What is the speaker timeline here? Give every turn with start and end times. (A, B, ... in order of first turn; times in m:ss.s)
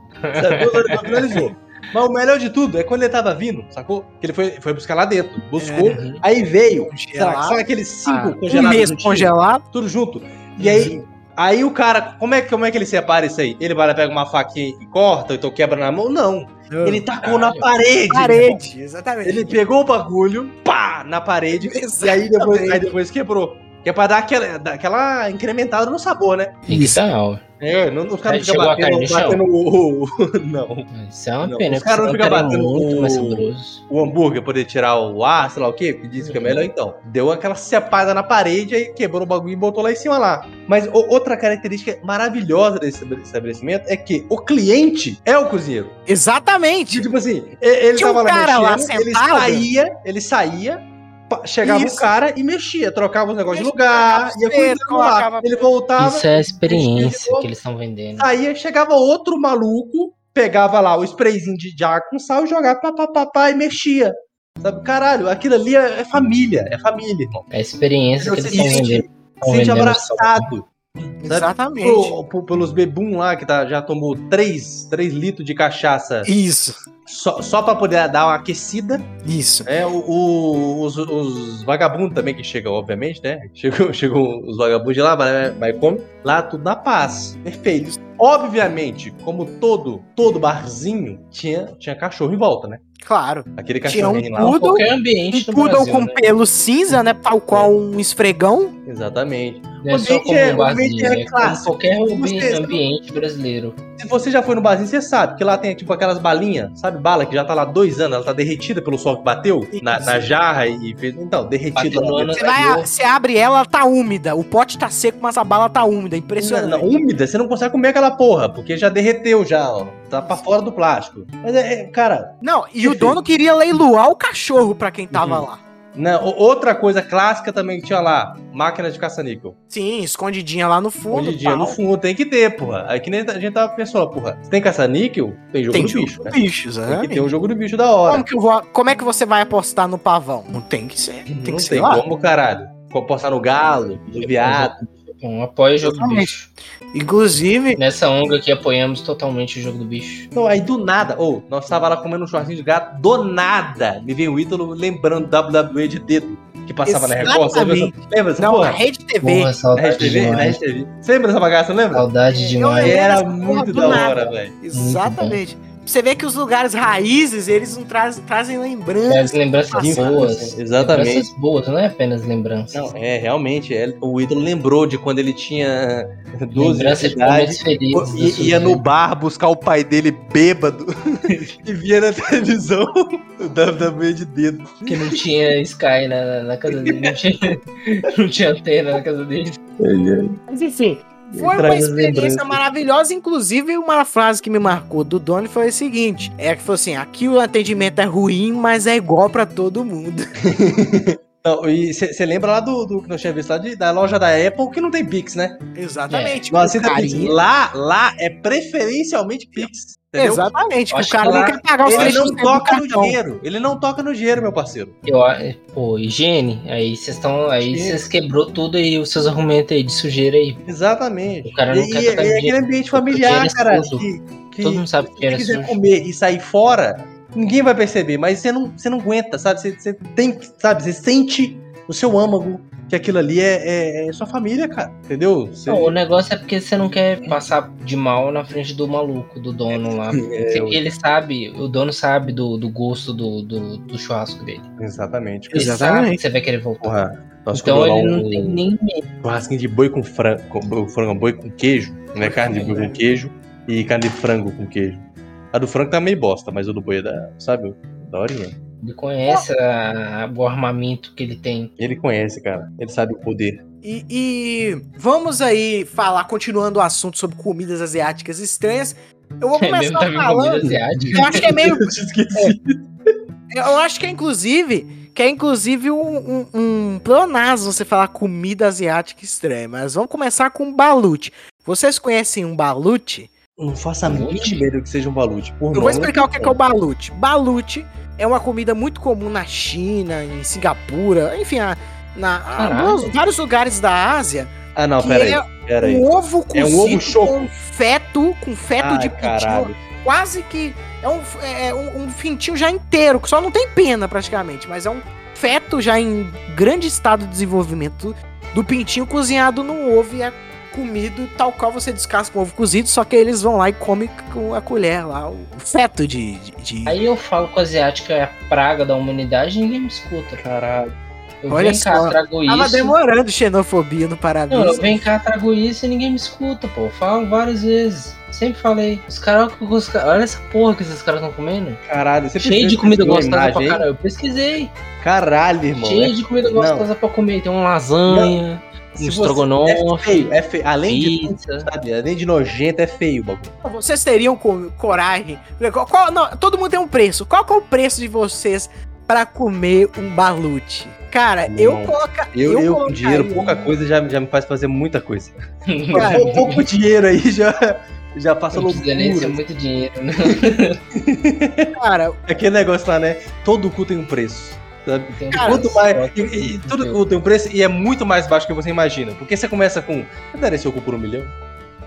0:00.2-0:01.5 A
0:00.3-0:18.6 B
0:05.6-0:06.0 C
0:05.8-0:06.2 A
0:06.8-0:09.6 C
0:16.7-0:17.0 C
0:17.2-0:17.6 A
0:18.1-0:19.6 C
0:19.2-0:26.6 B
0:21.5-0:22.8 C
0:26.7-0:27.0 C
0:26.7-0:27.4 A
0:27.6-0:30.9 B
0:28.2-0:29.4 A
0:30.9-0:33.8 A
0:31.4-0:45.9 B
0:36.2-0:36.6 A
0:46.1-0:47.0 C
0:46.9-0:57.5 B
0:48.0-0:49.7 C
0:51.6-0:52.1 C
0:53.5-0:55.6 C
0:56.0-0:58.3 A
0:58.2-1:07.4 B
1:07.5-1:10.5 A
1:08.2-1:16.3 B
1:11.2-1:12.1 C
1:16.2-1:16.8 C
1:17.0-1:19.1 B
1:19.2-1:19.7 C
1:19.6-1:32.8 B
1:33.0-1:38.7 C
1:33.6-1:34.6 B
1:34.4-1:36.2 A
1:38.8-1:42.8 B
1:39.8-1:43.8 A
1:44.0-1:52.4 B
1:49.7-1:50.3 C
1:51.7-1:52.9 A
1:52.3-1:56.9 C
1:56.4-2:03.2 B
2:02.4-2:05.6 C
2:05.1-2:05.4 B
2:06.0-2:09.6 B
2:09.7-2:11.8 C
2:11.1-2:18.2 B
2:15.7-2:17.3 C
2:18.0-2:22.0 C
2:21.3-2:24.7 B
2:24.2-2:26.5 A
2:25.8-2:26.4 C
2:26.9-2:27.8 C
2:27.8-2:30.3 A
2:30.3-2:38.8 B
2:36.8-2:39.5 C
2:39.2-2:40.6 A
2:39.7-2:42.1 B
2:41.9-2:43.0 A
2:42.3-2:50.2 C
2:42.8-2:44.5 B
2:43.6-2:44.1 A
2:44.7-2:45.4 A
2:49.1-2:52.9 A
2:49.8-2:51.3 B
2:52.7-3:05.2 B
2:56.5-2:58.8 A
3:01.3-3:01.5 A
3:04.8-3:09.6 A
3:06.7-3:07.2 B
3:09.8-3:10.4 B
3:10.5-3:20.3 C
3:11.3-3:12.6 B
3:20.4-3:25.6 B
3:25.8-3:27.4 C
3:26.1-3:26.4 A
3:26.5-3:30.5 B
3:30.2-3:33.2 C
3:30.9-3:32.2 A
3:31.3-3:34.9 B
3:35.0-3:40.6 A
3:37.6-3:38.0 B
3:40.6-3:56.0 B
3:41.4-3:44.0 A
3:44.6-3:45.8 A
3:55.7-4:04.7 A
3:59.7-4:00.8 B
4:04.8-4:05.7 B
4:05.5-4:06.2 C
4:05.5-4:07.0 A
4:06.8-4:08.6 B
4:07.5-4:09.1 A
4:09.2-4:18.6 B
4:12.2-4:12.9 A
4:18.8-4:21.7 A
4:21.8-4:23.6 B
4:23.8-4:32.5 C
4:29.6-4:31.5 A
4:30.6-4:32.8 B
4:33.5-4:43.3 C
4:43.6-4:46.5 B
4:44.0-4:44.6 A
4:45.7-5:17.0 C
4:52.6-4:53.1 A
4:54.7-4:57.5 B
4:58.8-4:59.8 B
5:16.8-5:20.4 A
5:20.4-5:20.9 B
5:21.4-5:22.9 A
5:21.5-5:25.0 C
5:24.5-5:31.8 A
5:31.8-5:33.8 B
5:32.4-5:34.7 A
5:35.0-5:36.9 B
5:35.7-5:40.3 A
5:38.1-5:38.4 B
5:39.0-5:43.5 B
5:40.8-5:41.7 A
5:43.6-5:53.7 C
5:51.5-5:55.4 B
5:55.7-5:56.6 A
5:55.9-5:56.2 C
5:55.9-5:59.4 B
5:58.5-6:00.8 A
6:00.9-6:01.7 B
6:01.8-6:02.2 C
6:02.3-6:11.3 B
6:05.1-6:07.0 A
6:05.3-6:05.6 C